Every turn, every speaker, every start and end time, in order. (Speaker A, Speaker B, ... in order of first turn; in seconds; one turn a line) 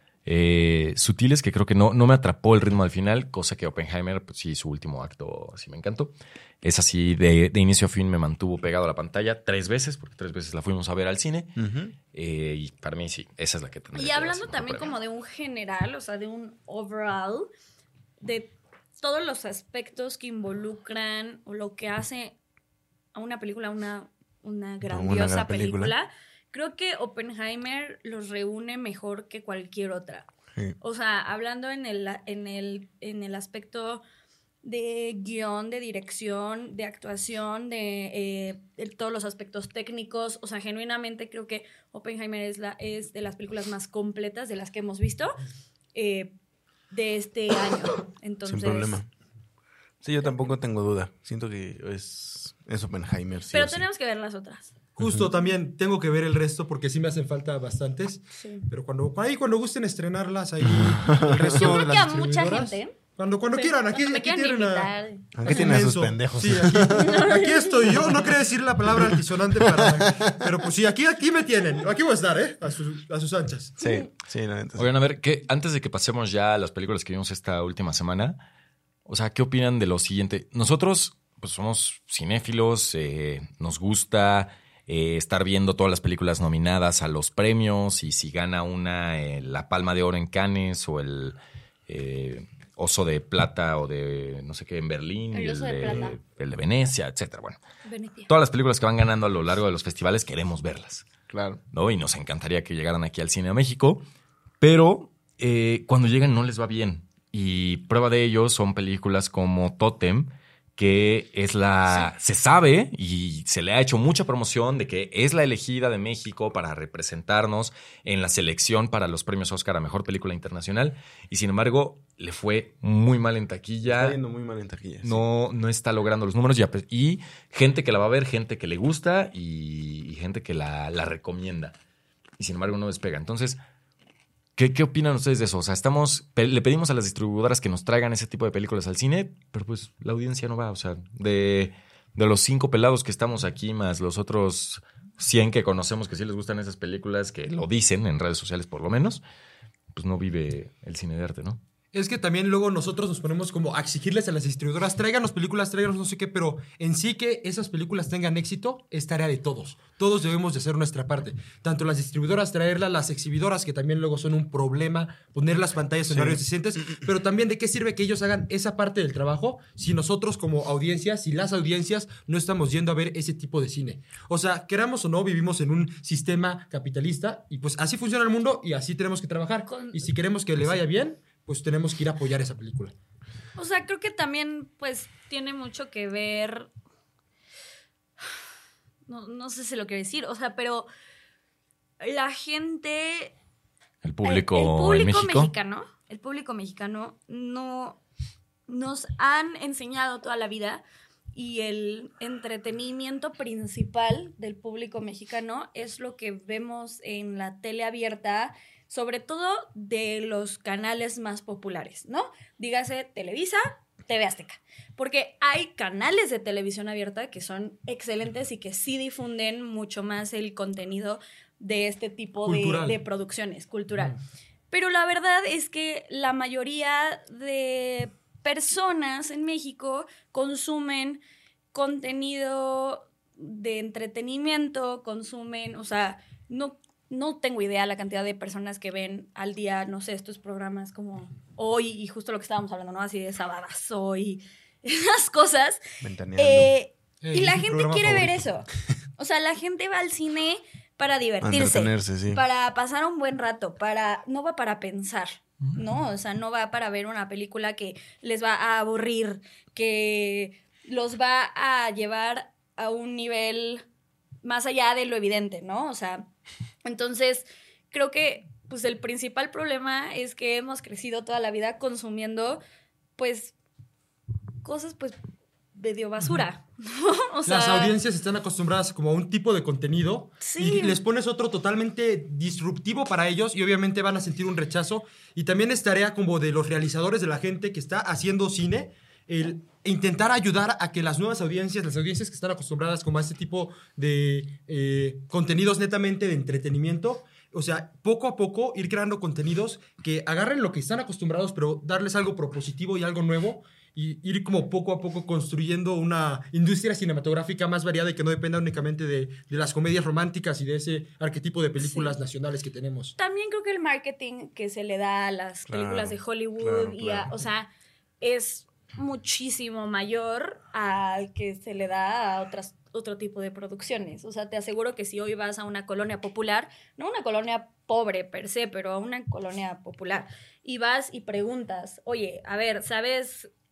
Speaker A: 0.3-11.6
Speaker B: 11.6-11.9
Speaker A: 12.1-15.0
Speaker C: 13.9-17.5
Speaker C: 18.2-22.4
Speaker C: 23.1-30.3
Speaker B: 24.9-25.9
Speaker C: 30.8-34.0
Speaker C: 34.6-45.4
Speaker C: 45.9-46.3
Speaker C: 46.9-49.0
Speaker B: 48.5-49.1
Speaker B: 50.0-53.9
Speaker C: 53.5-54.7
Speaker D: 55.0-73.8
Speaker C: 58.3-58.7
Speaker B: 60.6-61.8
Speaker C: 61.5-63.0
Speaker C: 63.5-65.3
Speaker B: 65.3-67.3
Speaker C: 67.0-67.9
Speaker B: 68.9-70.5
Speaker B: 73.8-74.9
Speaker C: 73.8-74.1
Speaker A: 74.8-78.4
Speaker A: 79.1-97.6
Speaker C: 95.3-96.2
Speaker C: 97.9-98.3
Speaker A: 98.3-101.1
Speaker B: 101.3-101.6
Speaker A: 101.7-104.0
Speaker A: 104.6-124.2
Speaker B: 123.9-125.2
Speaker A: 125.0-131.8
Speaker A: 132.4-133.6
Speaker A: 134.6-149.2
Speaker A: 149.9-151.6
Speaker D: 151.9-182.9
Speaker B: 166.1-166.4
Speaker C: 179.7-180.0
Speaker C: 183.6-186.7
Speaker C: 189.1-190.9
Speaker C: 192.0-193.3
Speaker A: 194.0-195.5
Speaker C: 194.2-198.0
Speaker C: 198.7-200.8
Speaker C: 201.3-224.2
Speaker D: 222.4-223.0
Speaker C: 224.7-231.2
Speaker C: 231.7-245.8
Speaker B: 246.0-246.7
Speaker C: 246.4-263.8
Speaker D: 247.2-248.4
Speaker B: 251.4-252.4
Speaker C: 264.4-266.3
Speaker C: 266.8-272.6
Speaker C: 273.2-273.5
Speaker C: 274.6-275.2
Speaker C: 275.8-277.9
Speaker D: 277.5-313.1
Speaker C: 280.4-281.0
Speaker C: 311.8-312.2
Speaker C: 313.2-317.7
Speaker B: 315.7-317.3
Speaker C: 318.2-333.5